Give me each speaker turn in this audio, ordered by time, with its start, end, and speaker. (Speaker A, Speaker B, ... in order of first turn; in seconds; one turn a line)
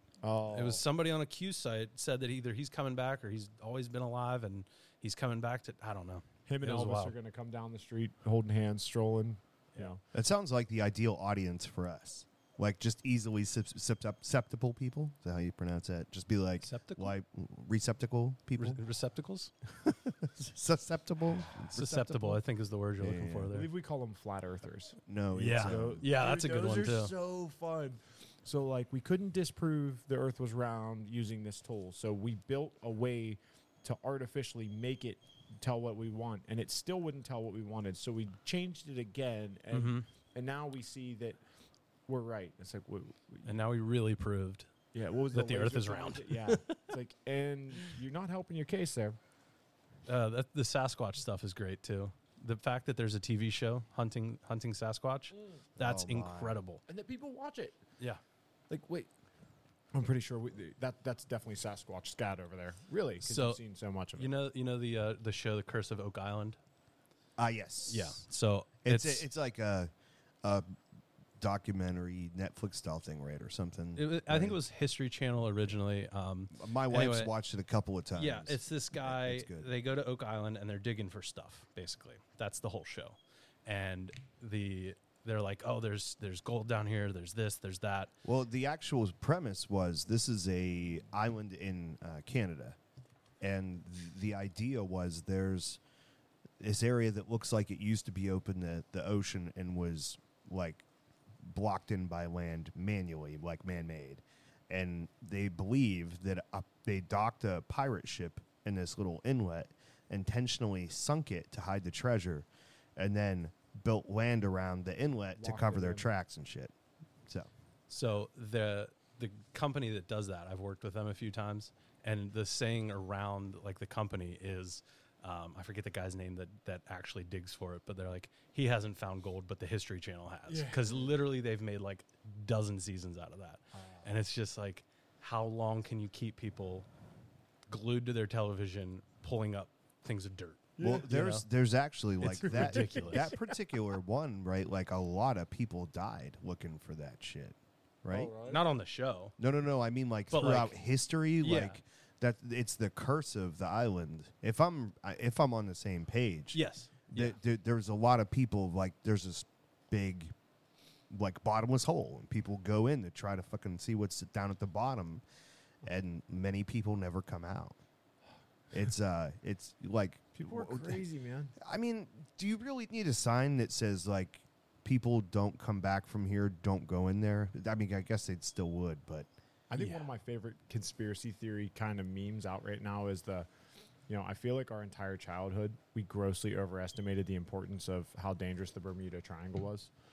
Speaker A: 0.2-0.8
Speaker B: 0.5-7.1
Speaker A: 6.5-10.0
Speaker C: 10.1-18.8
Speaker B: 16.6-17.1
Speaker B: 18.6-19.5
Speaker C: 19.7-22.3
Speaker A: 21.5-22.4
Speaker B: 21.7-23.7
Speaker C: 23.0-23.5
Speaker A: 23.5-25.0
Speaker C: 25.1-26.0
Speaker B: 25.3-27.1
Speaker A: 25.6-41.4
Speaker B: 39.7-40.0
Speaker A: 42.1-43.5
Speaker B: 43.4-44.7
Speaker A: 44.9-49.2
Speaker B: 45.3-46.8
Speaker B: 50.0-56.8
Speaker C: 55.8-56.6
Speaker A: 56.9-57.8
Speaker A: 58.7-59.1
Speaker A: 59.9-64.3
Speaker B: 63.2-63.6
Speaker B: 64.2-66.6
Speaker C: 67.4-68.2
Speaker B: 67.9-69.3
Speaker C: 68.8-69.9
Speaker C: 70.4-70.8
Speaker C: 71.4-74.6
Speaker B: 74.0-77.3
Speaker C: 76.5-79.7
Speaker B: 78.2-88.1
Speaker C: 88.2-92.8
Speaker C: 93.4-95.8
Speaker C: 96.6-100.8
Speaker C: 101.4-116.7
Speaker A: 115.3-116.1
Speaker B: 117.9-136.8
Speaker A: 130.5-131.1
Speaker A: 133.7-134.1
Speaker B: 137.7-141.4
Speaker A: 140.8-141.1
Speaker C: 140.8-148.3
Speaker B: 142.2-143.3
Speaker A: 142.4-143.4
Speaker A: 148.1-148.6
Speaker B: 148.4-149.3
Speaker C: 149.4-156.6
Speaker B: 150.3-150.7
Speaker B: 151.4-151.8
Speaker B: 156.5-157.3
Speaker C: 157.1-160.3
Speaker C: 161.1-165.2
Speaker C: 165.8-167.8
Speaker C: 168.7-171.0
Speaker A: 170.3-171.5
Speaker C: 171.6-179.3
Speaker A: 179.7-183.5
Speaker B: 179.8-180.1
Speaker A: 184.1-189.9